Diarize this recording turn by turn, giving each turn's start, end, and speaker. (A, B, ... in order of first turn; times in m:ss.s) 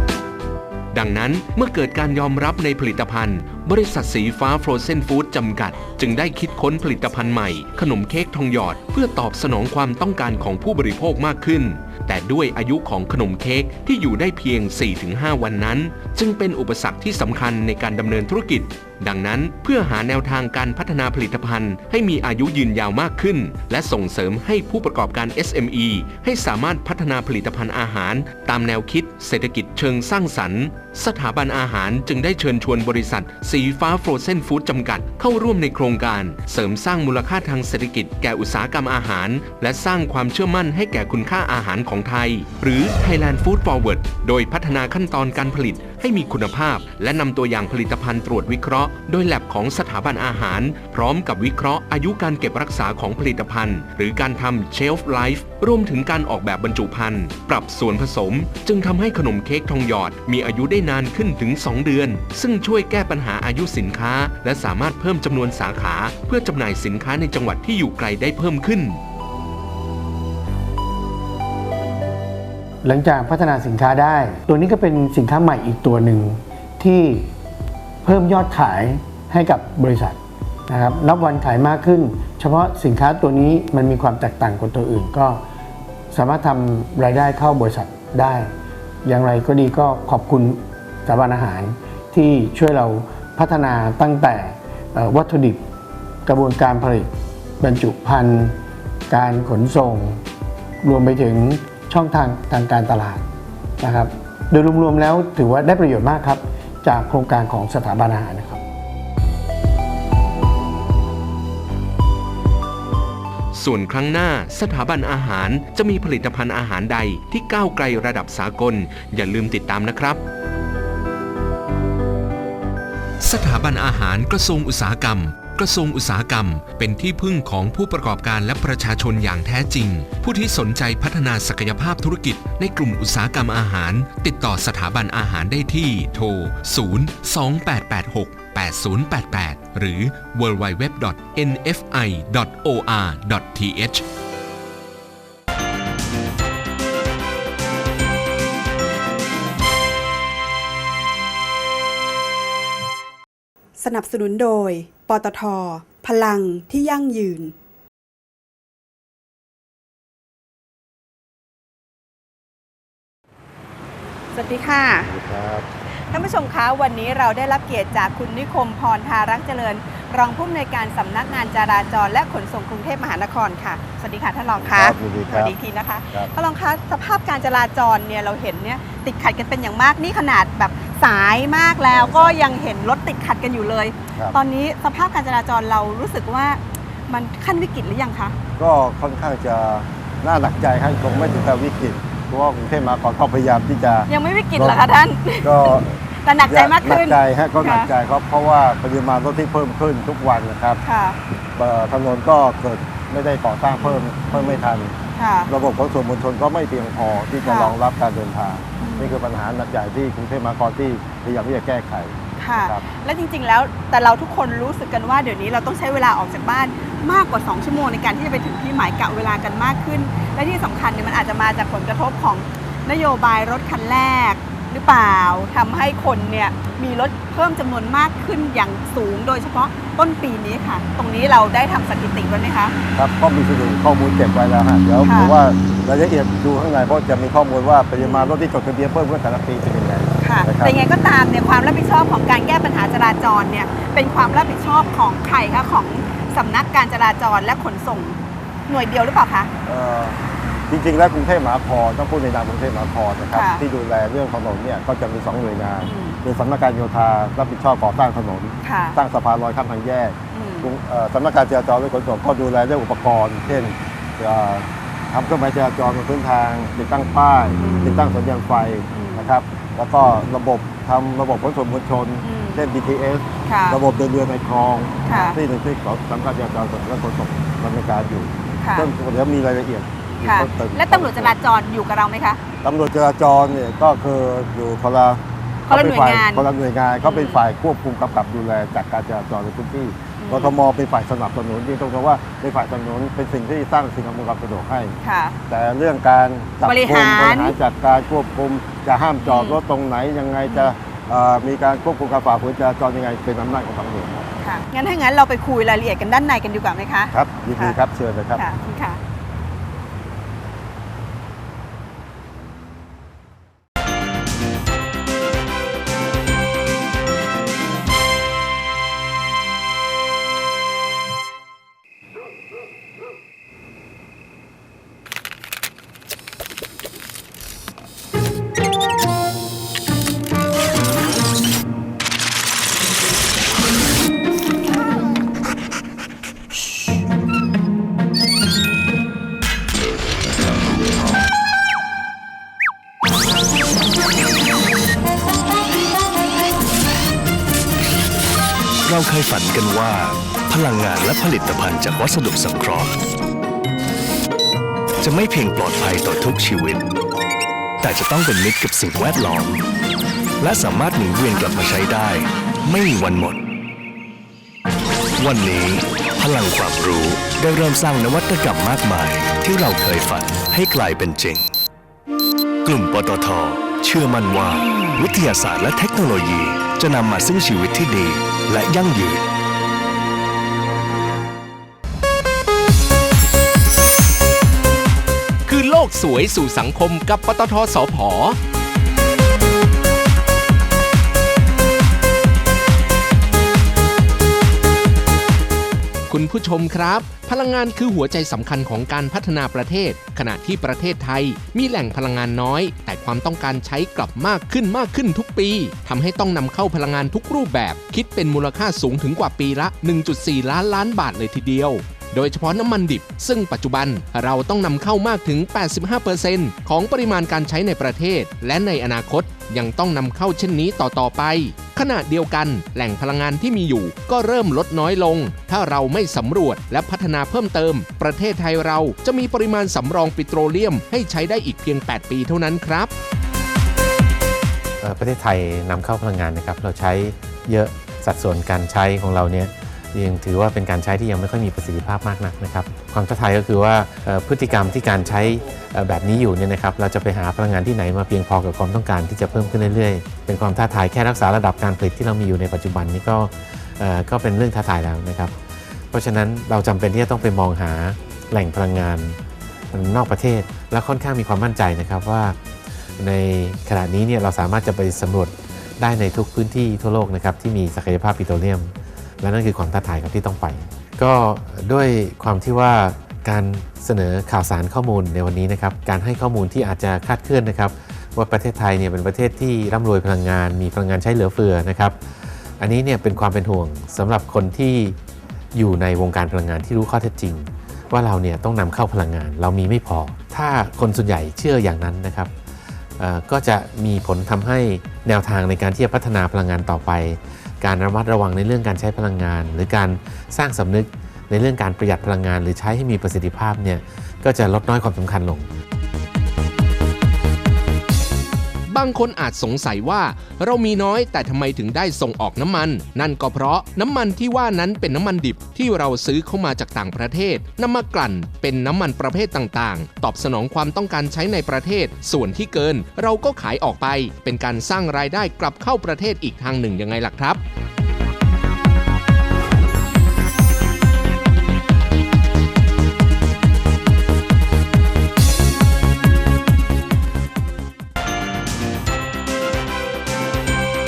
0:00.9-1:09.0 A
1:12.8-1:17.3 B
1:18.0-1:25.4 B
1:26.1-1:28.5 B
1:29.0-1:35.6 B
1:36.2-1:38.6 B
1:39.1-1:40.2 B
1:40.8-1:43.3 B
1:43.8-1:48.6 B
1:53.5-2:00.2 A
2:03.2-2:24.0 A
2:33.8-2:37.5 C
2:44.3-2:45.1 C
2:45.0-2:45.7 D
2:46.1-3:08.4 C
2:54.6-2:55.6 D
3:01.9-3:02.4 D
3:08.6-3:14.8 D
3:14.1-3:17.9 C
3:15.4-3:20.8 D
3:20.8-3:21.2 C
3:21.6-3:24.9 D
3:23.8-3:24.6 C
3:25.2-3:25.5 C
3:25.5-3:32.8 D
3:27.4-3:27.7 C
3:28.8-3:29.2 C
3:32.4-3:52.8 C
3:53.0-4:00.8 D
3:55.0-3:55.3 C
3:58.0-3:58.3 C
4:00.2-4:09.5 C
4:09.6-4:41.3 D
4:13.4-4:13.6 C
4:15.8-4:16.2 C
4:18.6-4:19.0 C
4:20.3-4:20.7 C
4:27.6-4:28.0 C
4:28.9-4:29.3 C
4:32.2-4:32.6 C
4:33.5-4:33.8 C
4:35.1-4:35.4 C
4:38.6-4:38.9 C
4:40.2-4:42.4 C
4:42.6-4:55.0 D
4:45.7-4:46.4 C
4:47.0-4:47.4 C
4:50.2-4:50.5 C
4:55.0-4:55.4 C
4:55.5-5:04.3 D
4:56.6-4:57.6 C
4:59.2-4:59.6 C
5:00.5-5:00.7 C
5:04.4-5:07.8 C
5:07.1-5:08.4 D
5:08.4-5:09.0 C
5:48.9-5:52.9 E
5:55.0-5:56.8 E
5:57.8-5:59.6 E
6:00.4-6:03.4 E
6:05.2-6:11.5 E
6:12.6-6:19.2 E
6:25.5-6:28.4 A
6:36.1-7:12.9 A
7:14.8-7:35.4 F
7:35.9-7:39.2 F
7:39.7-7:42.4 F
7:43.0-8:02.0 F
8:02.6-8:05.0 F
8:05.5-8:12.3 F
8:13.0-8:25.5 F
8:28.7-8:47.4 A